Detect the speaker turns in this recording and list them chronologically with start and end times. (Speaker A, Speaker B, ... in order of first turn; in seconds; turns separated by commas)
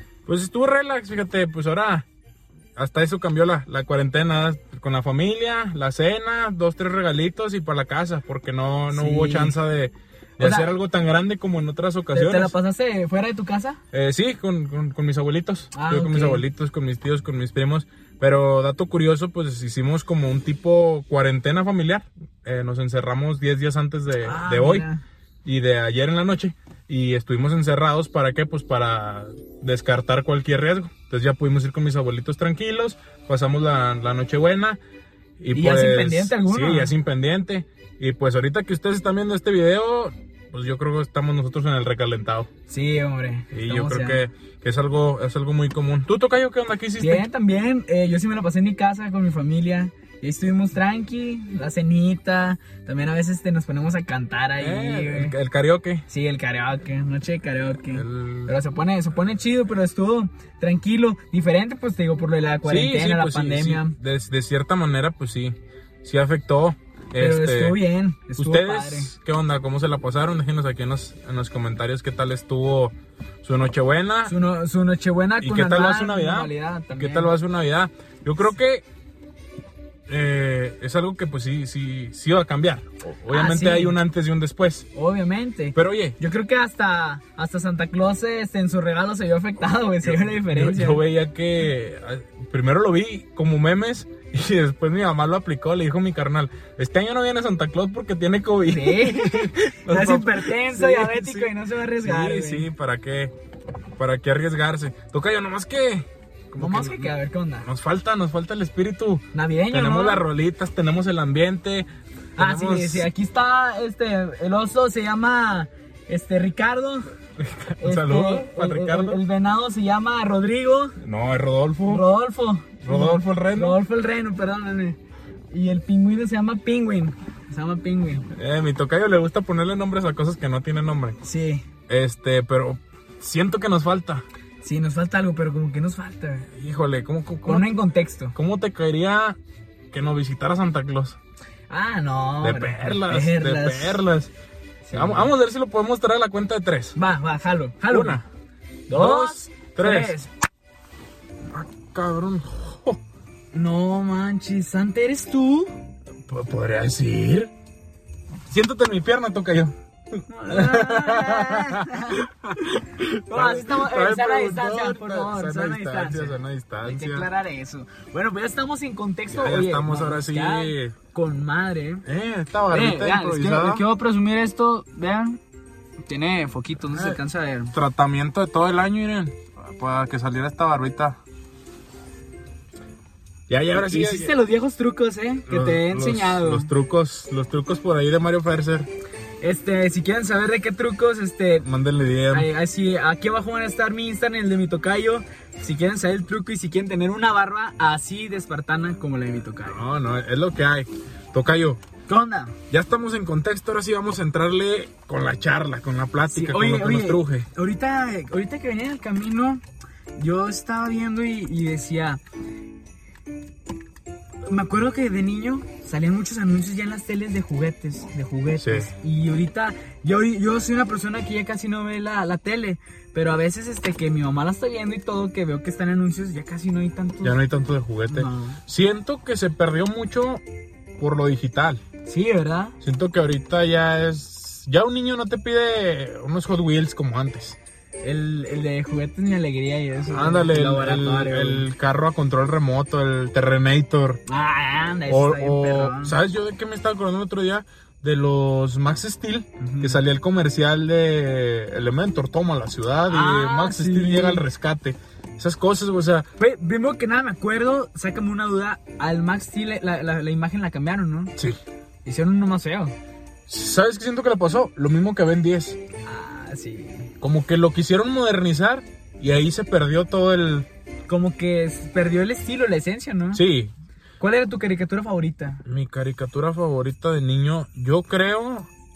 Speaker A: 0.2-2.0, Speaker A: 2.8-12.5, Speaker B: 8.9-9.6, Speaker B: 10.4-10.7, Speaker B: 12.1-13.8, Speaker A: 13.9-24.9, Speaker B: 15.7-16.4, Speaker B: 24.2-25.0, Speaker A: 25.4-34.8, Speaker A: 35.4-42.5, Speaker B: 35.5-36.9, Speaker B: 42.7-44.2, Speaker A: 43.5-47.3, Speaker B: 47.0-55.3, Speaker A: 54.6-56.0, Speaker B: 56.1-64.0, Speaker A: 57.7-58.5, Speaker A: 62.6-67.8, Speaker B: 67.2-69.1, Speaker A: 68.4-74.3, Speaker B: 74.2-77.3, Speaker A: 75.4-78.8, Speaker A: 80.1-84.9, Speaker B: 83.3-84.0, Speaker B: 84.9-91.0, Speaker A: 85.7-86.2, Speaker A: 90.0-103.3, Speaker B: 98.6-102.7, Speaker A: 104.0-113.1, Speaker B: 106.6-107.7, Speaker B: 109.3-110.2, Speaker B: 112.4-117.1, Speaker A: 117.4-119.2, Speaker B: 117.8-121.0, Speaker A: 121.0-122.0, Speaker B: 121.8-125.0, Speaker A: 122.8-123.8, Speaker B: 125.5-128.3, Speaker A: 128.3-131.2, Speaker B: 131.2-131.7, Speaker A: 131.9-134.2, Speaker B: 134.6-136.5, Speaker A: 136.6-137.7, Speaker B: 137.4-138.3, Speaker A: 138.3-139.4, Speaker A: 139.9-141.2, Speaker B: 141.7-144.1, Speaker A: 142.4-144.3, Speaker B: 144.8-145.3, Speaker A: 144.9-146.9, Speaker B: 146.9-148.2, Speaker A: 147.9-148.2, Speaker A: 148.9-150.1, Speaker B: 148.9-150.3, Speaker A: 151.5-153.0, Speaker B: 153.5-155.7, Speaker A: 156.2-157.5, Speaker A: 158.5-167.3, Speaker B: 160.3-162.2, Speaker B: 163.3-172.0, Speaker A: 169.3-170.9, Speaker A: 172.0-173.8, Speaker B: 172.7-175.4, Speaker B: 176.1-177.7, Speaker A: 176.9-177.2, Speaker A: 177.7-181.2, Speaker A: 183.5-184.3, Speaker B: 183.8-186.7, Speaker A: 185.5-188.9, Speaker B: 189.4-191.7, Speaker A: 191.6-192.5, Speaker B: 192.3-199.8, Speaker A: 199.7-201.8, Speaker B: 202.1-202.6, Speaker A: 202.7-207.5, Speaker B: 206.3-209.6, Speaker B: 210.2-212.2, Speaker B: 214.5-227.4, Speaker A: 218.6-218.9, Speaker A: 227.2-230.4, Speaker B: 228.1-228.6, Speaker A: 231.0-231.8, Speaker B: 232.1-232.8, Speaker A: 232.8-237.6, Speaker B: 238.0-241.7, Speaker A: 240.1-244.2, Speaker B: 244.2-246.2, Speaker A: 245.1-256.3, Speaker B: 249.6-250.0, Speaker B: 253.1-254.4, Speaker B: 256.4-261.4, Speaker B: 262.0-262.9, Speaker A: 263.5-265.8, Speaker B: 266.0-267.1, Speaker A: 267.2-270.7, Speaker B: 271.1-273.4, Speaker A: 273.3-273.7, Speaker B: 274.2-275.6, Speaker A: 275.6-278.7